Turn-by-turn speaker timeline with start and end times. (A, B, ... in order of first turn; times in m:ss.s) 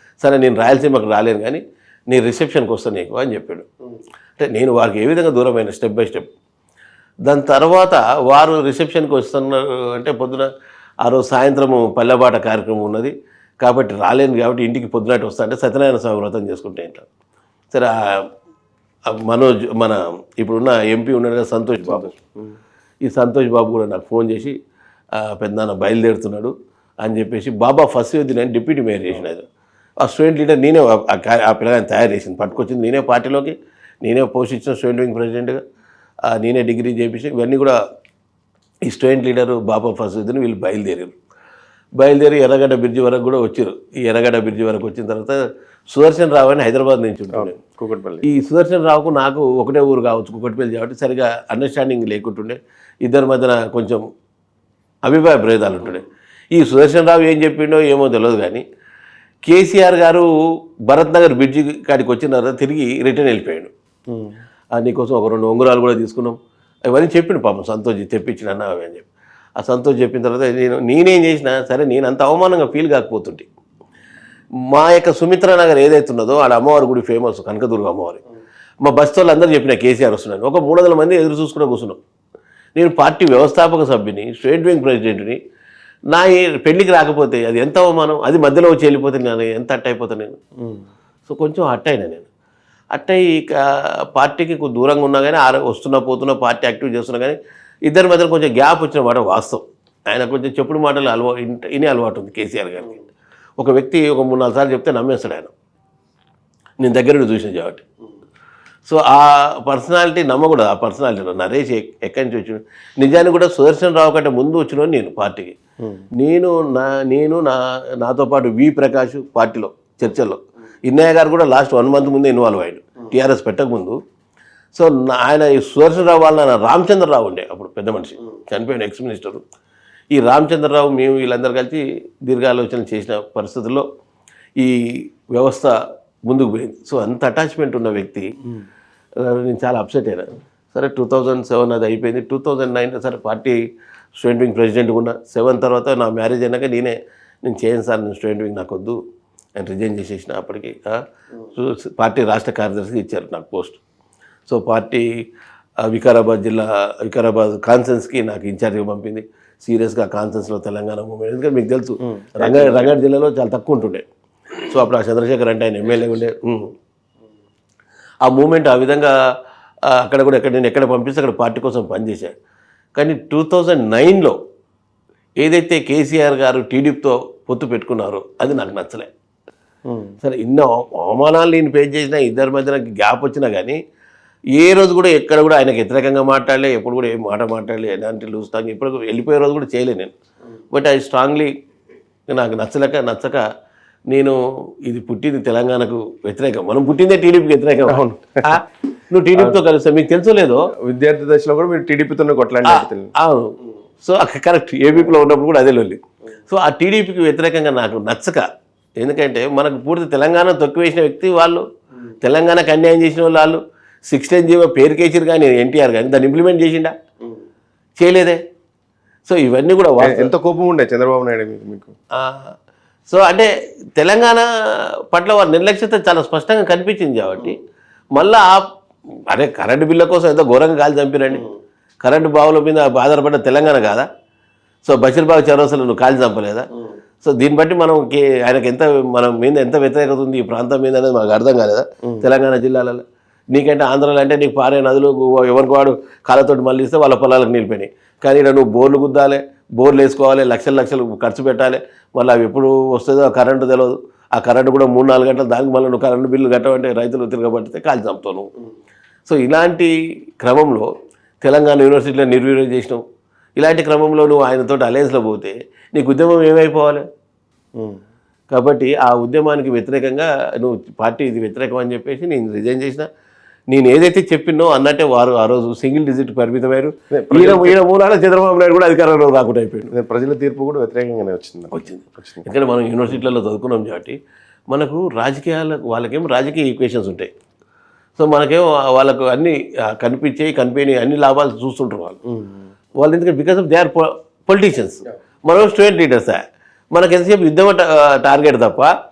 0:00.2-0:03.7 A
0:04.4-0:06.3 A
0:07.2-0:10.5 A
0:11.0-0:17.0 A
0:17.7-0:18.3 A
0:19.1-0:22.2 A
0:21.8-0:22.3 B
0:23.0-0:24.5 A
0:25.2-0:29.4 A
0:30.0-0:35.6 A
0:36.3-0:37.8 A
0:38.9-0:41.1 A
0:42.0-0:45.4 A
0:45.9-0:47.6 A
0:47.3-0:48.2 B
0:48.2-0:54.0 A
0:55.0-0:56.0 A
0:56.5-0:58.6 A
0:59.4-1:00.3 A
1:00.9-1:03.7 A
1:04.8-1:06.4 A
1:06.9-1:09.1 A
1:09.6-1:13.5 A
1:14.7-1:18.2 A
1:18.8-1:22.0 A
1:22.8-1:25.4 A
1:26.1-1:30.4 A
1:31.3-1:32.3 A
1:32.9-1:43.0 A
1:43.6-1:45.5 A
1:46.8-1:47.8 A
1:48.9-1:55.6 A
1:56.2-2:04.0 A
2:04.7-2:09.4 A
2:10.1-2:13.8 A
2:15.3-2:15.7 A
2:16.3-2:18.3 A
2:19.2-2:23.6 A
2:24.2-2:29.0 A
2:29.6-2:33.8 A
2:34.5-2:35.0 A
2:35.8-2:44.0 A
2:42.1-2:42.9 B
2:44.6-2:46.7 A
2:48.2-2:49.1 A
2:49.9-2:52.3 A
2:53.0-2:54.4 A
2:55.4-2:59.1 A
2:59.9-3:00.1 B
3:00.2-3:03.8 A
3:04.6-3:10.1 A
3:10.7-3:11.5 A
3:12.3-3:13.4 A
3:14.1-3:14.4 A
3:14.9-3:20.7 A
3:17.9-3:18.6 B
3:19.3-3:19.6 B
3:20.8-3:23.1 B
3:22.7-3:28.4 A
3:29.0-3:31.6 A
3:32.2-3:36.9 A
3:38.0-3:38.4 A
3:39.2-3:40.3 A
3:40.0-3:41.9 B
3:42.2-3:42.5 A
3:43.1-3:44.4 A
3:45.1-3:47.6 A
3:48.2-3:48.6 A
3:49.3-3:51.4 A
3:52.0-3:54.1 A
3:54.8-3:56.6 A
3:57.2-4:18.5 A
4:19.3-4:20.9 A
4:21.4-4:23.0 A
4:23.6-4:27.0 A
4:28.5-4:33.1 A
4:33.7-4:39.9 A
4:37.1-4:37.8 B
4:39.9-4:42.5 B
4:41.7-4:44.2 A
4:44.7-4:47.3 A
4:48.2-4:52.2 A
4:52.3-4:52.6 B
4:53.0-4:56.4 A
4:56.9-4:58.9 A